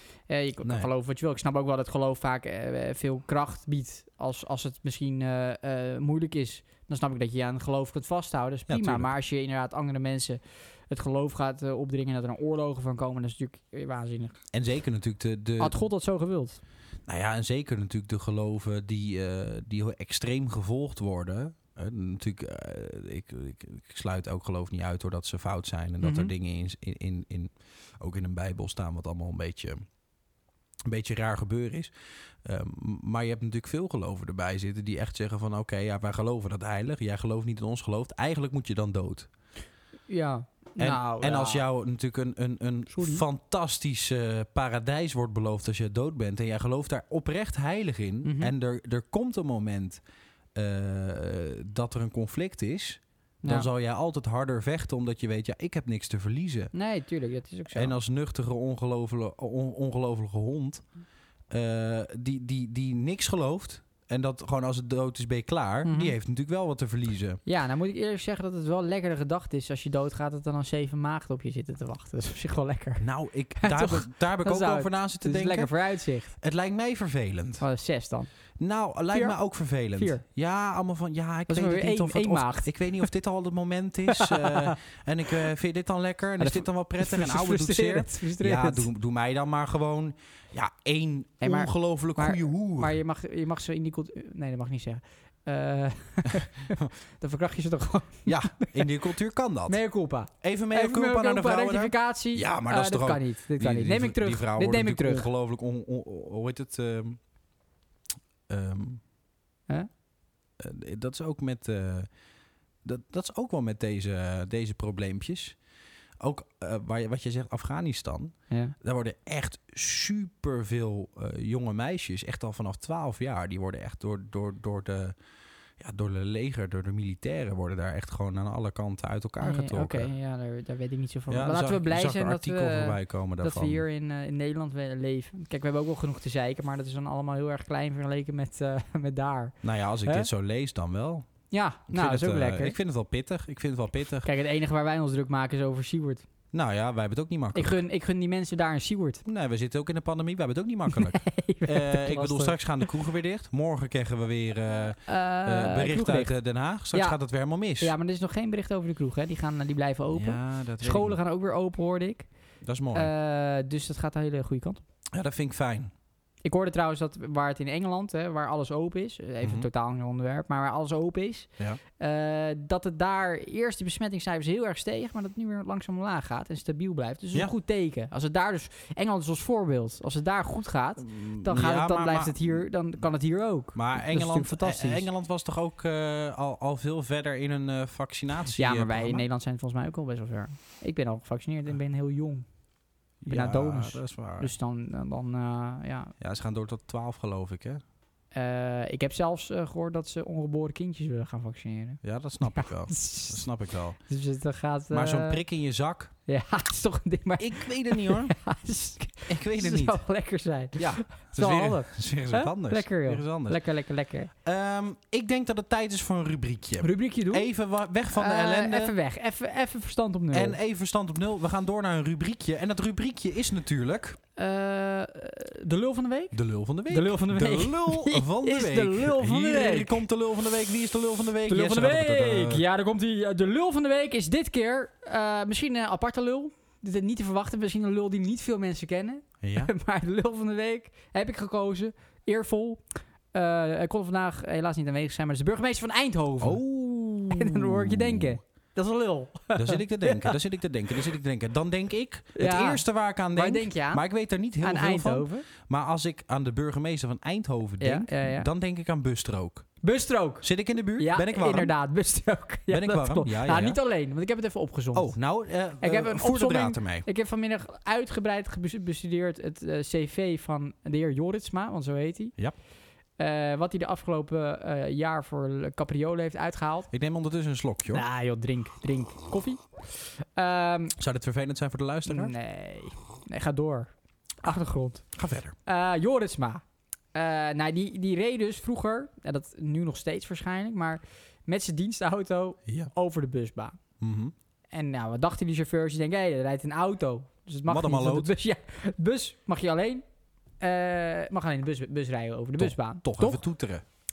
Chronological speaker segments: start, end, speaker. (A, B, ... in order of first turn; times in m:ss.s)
0:00.3-0:14.4 A
0:00.6-0:00.9 B
0:08.7-0:09.1 B
0:14.5-0:15.8 B
0:15.6-0:16.6 A
0:17.1-0:29.8 B
0:26.0-0:26.3 A
0:30.9-0:31.9 B
0:32.4-0:39.3 B
0:40.1-0:41.6 A
0:40.8-0:50.0 B
0:42.9-0:43.2 A
0:48.2-0:48.5 A
0:50.6-0:56.7 B
0:53.4-0:53.7 A
0:56.7-0:57.9 A
0:57.7-1:00.8 B
1:01.5-1:07.4 B
1:05.8-1:06.2 A
1:07.5-1:16.3 A
1:13.0-1:15.7 B
1:16.3-1:17.6 B
1:17.6-1:18.3 A
1:18.6-1:33.0 B
1:19.1-1:19.4 A
1:19.9-1:20.2 A
1:21.5-1:22.7 A
1:24.1-1:24.8 A
1:26.4-1:28.9 A
1:31.4-1:38.9 A
1:38.2-1:39.8 B
1:39.7-1:45.3 A
1:40.3-1:47.2 B
1:48.5-1:49.0 B
1:50.6-1:52.1 B
1:52.8-1:55.6 B
1:56.2-2:05.2 B
2:05.8-2:10.1 B
2:09.4-2:20.3 A
2:11.3-2:13.8 B
2:19.6-2:21.3 B
2:21.5-2:22.8 A
2:21.9-2:24.3 B
2:24.2-2:26.3 A
2:26.5-2:27.8 B
2:27.5-2:29.2 A
2:29.2-2:37.9 B
2:30.9-2:32.9 A
2:35.1-2:36.3 A
2:36.9-2:37.2 A
2:37.8-2:42.3 A
2:40.1-2:41.2 B
2:42.6-2:43.1 B
2:42.9-2:44.8 A
2:45.1-2:45.9 B
2:46.4-3:05.1 A
2:49.4-2:49.7 B
3:01.0-3:02.6 B
3:03.7-3:09.2 B
3:08.6-3:12.5 A
3:13.2-3:14.5 B
3:13.3-3:16.1 A
3:16.2-3:17.8 B
3:18.3-3:23.4 A
3:22.0-3:24.0 B
3:24.1-3:25.4 A
3:24.9-3:26.1 B
3:26.3-3:34.3 A
3:27.4-3:28.4 B
3:29.3-3:30.0 B
3:30.8-3:33.6 B
3:34.4-3:38.9 B
3:36.8-3:37.5 A
3:38.1-3:40.6 A
3:40.3-3:44.2 B
3:44.4-3:46.4 A
3:46.3-3:52.6 B
3:46.9-3:50.0 A
3:51.5-4:06.6 A
3:59.4-3:59.7 B
4:06.4-4:08.4 B
4:07.3-4:10.4 A
4:09.5-4:19.7 B
4:12.4-4:14.0 A
4:14.6-4:15.5 A
4:17.8-4:18.5 A
4:19.8-4:20.5 A
4:20.4-4:21.7 B
4:21.0-4:25.2 A
4:22.7-4:23.8 B
4:24.9-4:27.1 B
4:25.8-4:32.4 A
4:33.2-4:36.9 A
4:36.9-4:38.0 B
4:37.9-4:41.0 A
4:41.0-4:42.3 B
4:42.1-4:45.1 A
4:45.1-4:45.6 B
4:45.6-4:46.6 A
4:47.1-4:53.8 A
4:54.0-4:54.3 B
4:54.7-5:00.0 A
4:57.7-4:58.3 B
5:00.6-5:03.4 A
5:02.6-5:03.8 B